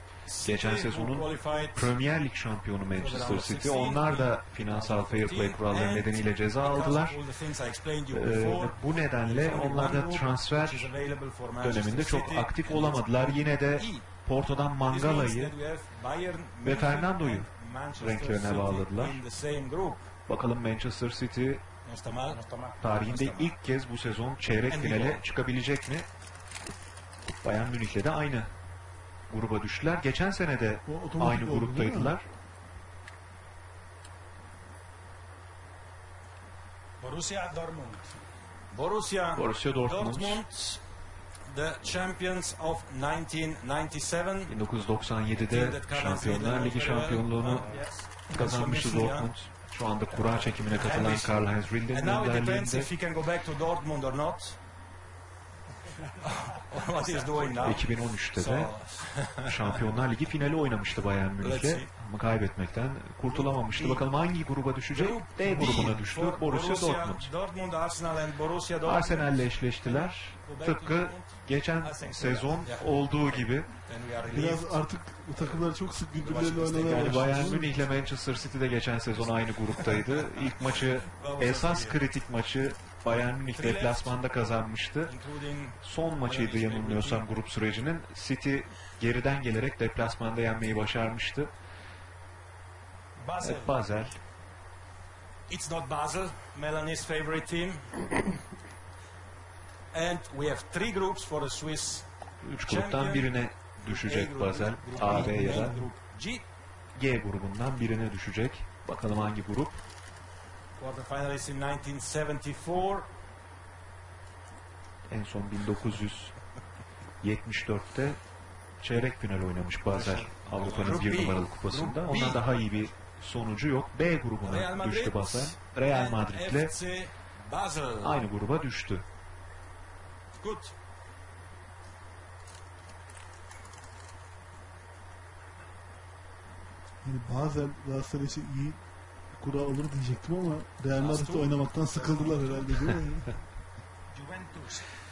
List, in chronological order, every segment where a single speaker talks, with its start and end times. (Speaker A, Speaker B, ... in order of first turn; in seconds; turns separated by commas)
Speaker A: 0.2-1.9, Speaker B: 0.4-7.2, Speaker A: 2.9-14.1, Speaker B: 8.1-10.9, Speaker B: 11.6-15.6, Speaker A: 14.8-20.1, Speaker B: 16.6-19.2, Speaker B: 20.3-21.6, Speaker A: 21.8-23.6, Speaker C: 22.2-22.8, Speaker B: 22.8-26.1, Speaker A: 24.7-25.2, Speaker B: 27.4-28.5, Speaker B: 29.3-32.2, Speaker D: 30.9-32.1, Speaker C: 37.0-38.2, Speaker A: 38.7-40.8, Speaker B: 39.3-40.4, Speaker A: 41.4-44.6, Speaker B: 44.5-52.9, Speaker A: 45.4-49.3, Speaker C: 47.6-48.0, Speaker A: 50.3-54.6, Speaker A: 56.2-59.9, Speaker B: 57.6-58.7, Speaker B: 59.2-67.3, Speaker A: 61.4-61.9, Speaker A: 63.2-64.0, Speaker A: 64.9-74.8, Speaker D: 65.4-66.0, Speaker B: 68.8-73.7, Speaker D: 74.2-77.7, Speaker A: 75.3-78.0, Speaker B: 76.8-85.1, Speaker A: 79.8-80.6, Speaker A: 81.1-82.0, Speaker A: 83.5-84.2, Speaker A: 85.0-87.3, Speaker B: 85.8-91.5, Speaker A: 93.2-93.8, Speaker B: 93.4-94.2, Speaker A: 95.5-98.0, Speaker A: 99.9-102.1, Speaker B: 102.4-105.8, Speaker A: 102.6-106.4, Speaker D: 105.0-105.9, Speaker B: 106.9-109.8, Speaker A: 110.8-113.1, Speaker B: 115.1-116.3, Speaker B: 117.2-118.2, Speaker B: 118.8-126.7, Speaker A: 119.9-122.4, Speaker C: 120.8-121.3, Speaker A: 124.4-128.2, Speaker B: 128.0-129.0, Speaker A: 130.4-130.7, Speaker D: 137.0-138.8, Speaker D: 139.3-143.3, Speaker A: 140.9-142.9, Speaker C: 144.1-144.8